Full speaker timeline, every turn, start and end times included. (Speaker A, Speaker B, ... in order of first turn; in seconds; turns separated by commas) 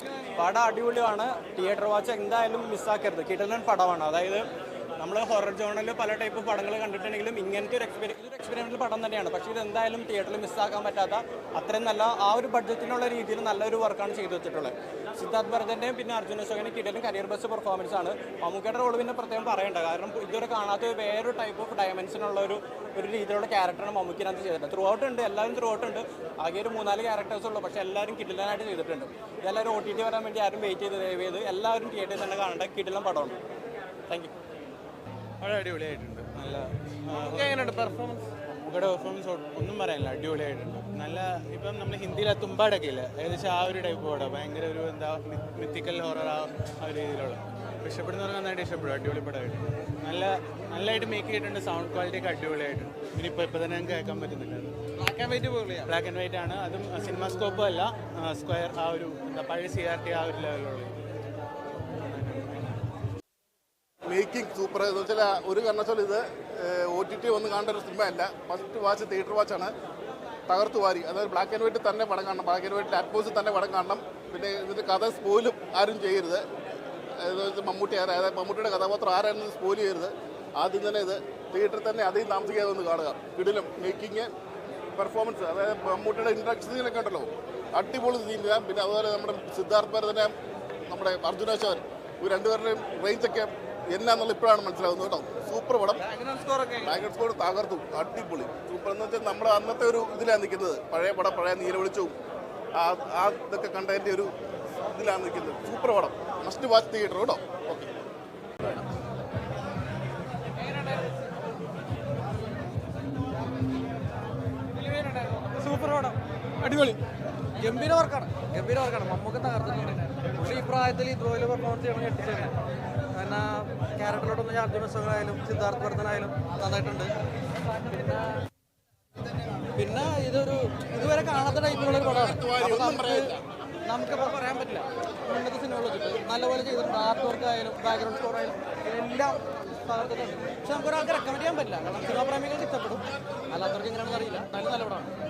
Speaker A: 0.3-4.4, Speaker A: 5.0-33.4, Speaker B: 35.4-36.4, Speaker B: 37.0-37.8, Speaker C: 37.2-38.2, Speaker B: 38.5-54.7, Speaker C: 55.0-55.6, Speaker B: 55.5-61.0, Speaker B: 62.0-62.7, Speaker D: 64.1-69.7, Speaker D: 70.5-76.4, Speaker D: 77.2-84.3, Speaker D: 84.9-90.3, Speaker D: 90.9-96.0, Speaker C: 96.1-96.9, Speaker D: 96.8-102.1, Speaker D: 102.8-104.3, Speaker D: 104.9-107.9, Speaker C: 114.9-117.0, Speaker C: 117.6-122.5, Speaker C: 123.1-127.1, Speaker C: 129.7-133.3, Speaker D: 131.7-133.4, Speaker C: 133.8-145.1